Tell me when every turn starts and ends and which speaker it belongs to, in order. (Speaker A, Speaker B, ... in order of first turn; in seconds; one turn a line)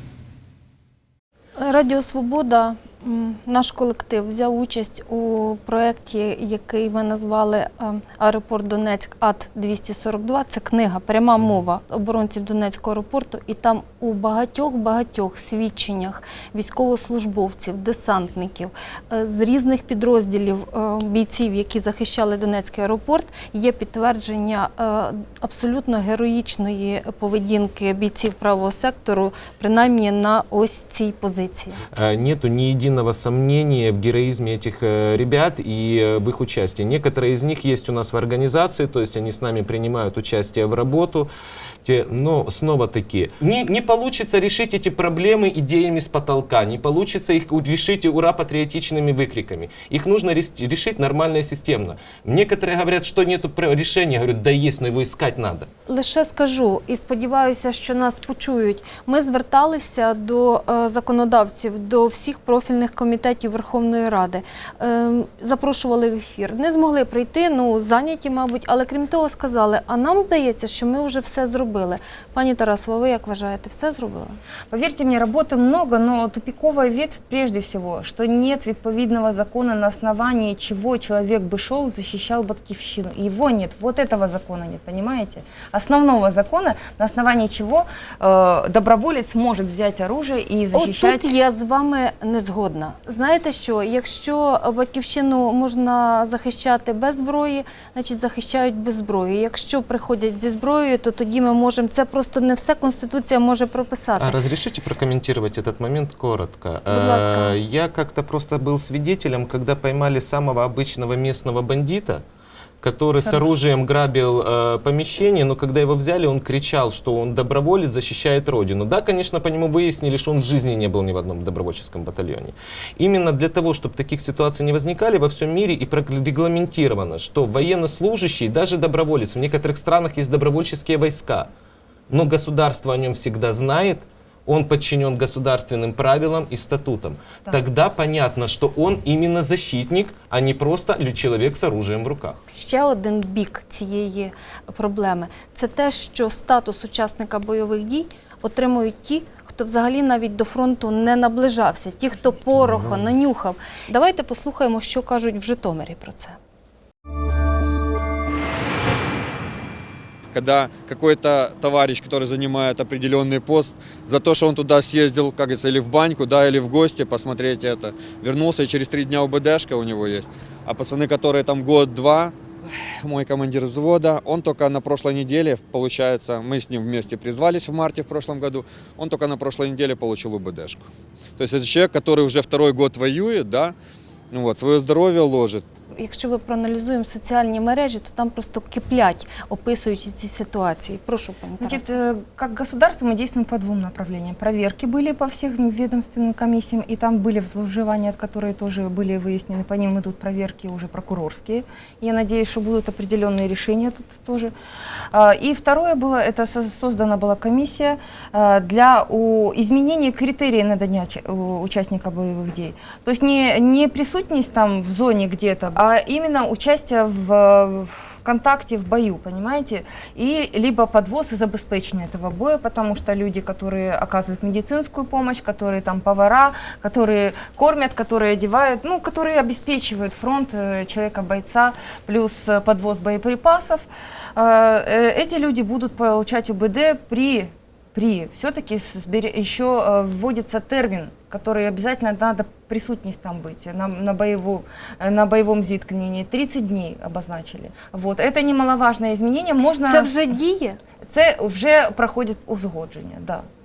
Speaker A: 1.6-31.8
Speaker B: 31.9-41.3
Speaker B: 41.8-55.7
Speaker A: 55.9-74.4
Speaker C: 74.7-91.3
Speaker A: 90.7-104.4
Speaker B: 104.2-112.2
Speaker A: 106.9-107.5
Speaker B: 112.8-131.5
Speaker B: 132.1-142.4
Speaker A: 142.5-156.4
Speaker B: 152.6-153.0
Speaker D: 160.3-172.3
Speaker D: 173.0-183.7
Speaker D: 184.3-185.6
Speaker A: 186.0-191.9
Speaker C: 191.6-204.5
Speaker C: 205.1-250.3
Speaker A: 249.8-250.8
Speaker C: 251.0-253.4